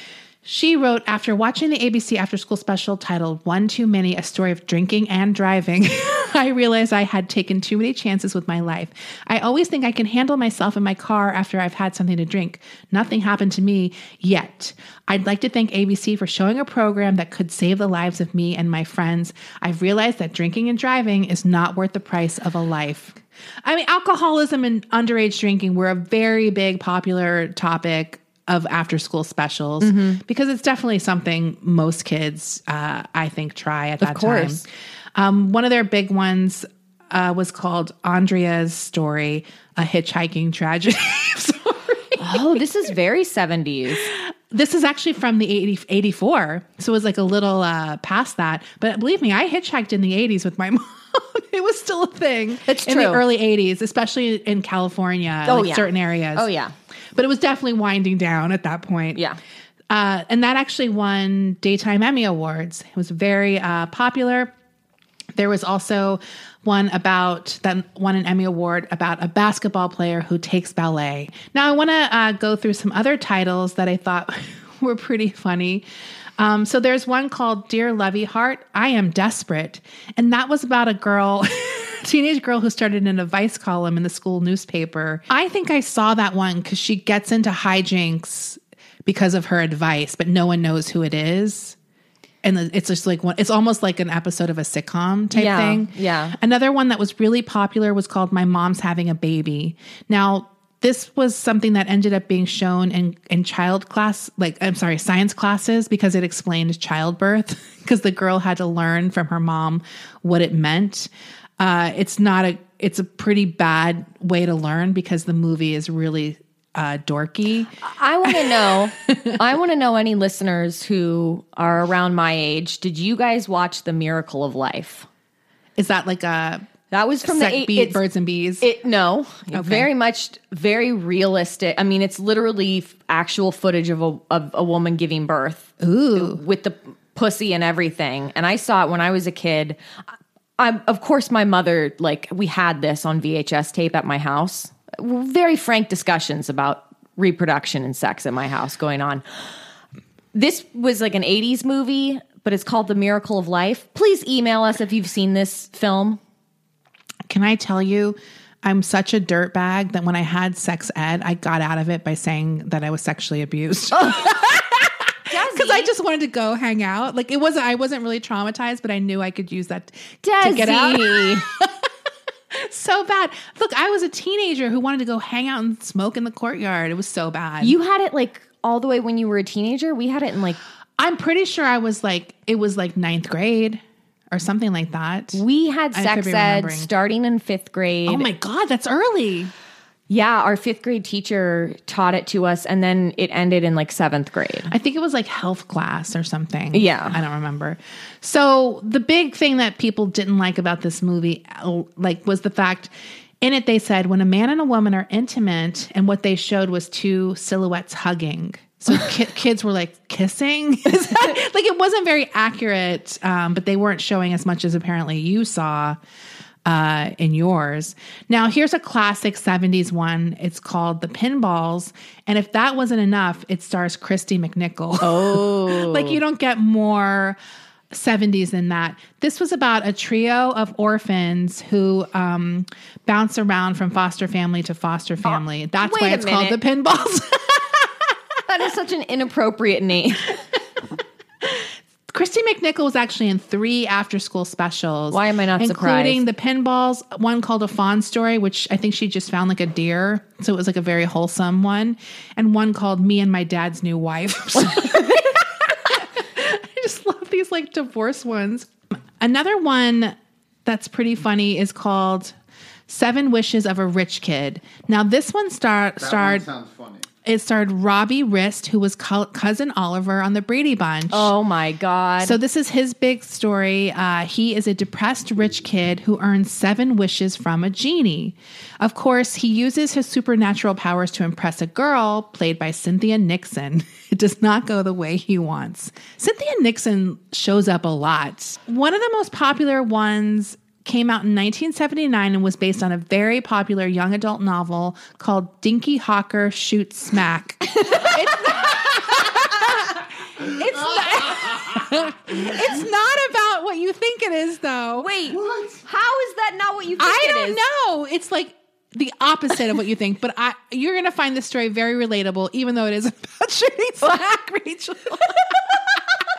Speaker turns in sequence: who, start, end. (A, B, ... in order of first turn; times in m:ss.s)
0:00.4-0:42.6 A
0:29.8-0:30.2 B
0:34.0-0:34.6 B
0:42.2-0:44.1 B
0:44.1-0:56.5 A
0:52.8-0:53.2 B
0:55.5-0:56.7 B
0:57.2-0:59.2 A
0:59.9-1:04.5 A
1:05.4-1:15.8 A
1:16.4-1:31.8 A
1:32.4-1:57.7 A
1:35.3-1:36.4 B
1:57.8-2:05.1 B
1:58.3-1:59.3 A
2:05.8-2:06.7 A
2:06.9-2:08.0 B
2:07.2-2:08.7 A
2:08.6-2:19.8 B
2:09.5-2:09.9 A
2:15.8-2:16.4 A
2:20.6-2:29.2 B
2:30.3-2:36.2 B
2:37.3-2:51.8 A
2:43.9-2:44.3 B
2:45.3-2:45.9 B
2:50.2-2:51.4 B
2:52.5-2:57.8 A
2:57.6-3:00.6 B
3:01.0-3:05.4 A
3:05.3-3:08.3 B
3:05.9-3:06.9 A
3:08.1-3:09.5 A
3:10.1-3:14.7 B
3:14.7-3:36.0 A
3:16.7-3:17.2 B
3:36.7-3:47.4 A
3:45.0-3:46.2 B
3:47.9-3:57.9 A
3:55.2-3:56.6 B
3:58.5-4:00.3 B
4:01.4-4:22.3 A
4:05.1-4:06.2 B
4:22.9-4:26.4 A
4:26.0-4:27.1 C
4:27.2-4:31.3 A
4:31.1-4:32.4 B
4:32.2-5:05.1 A
5:00.7-5:01.8 C
5:05.0-5:07.6 B
5:05.3-5:05.8 C
5:07.0-5:16.0 A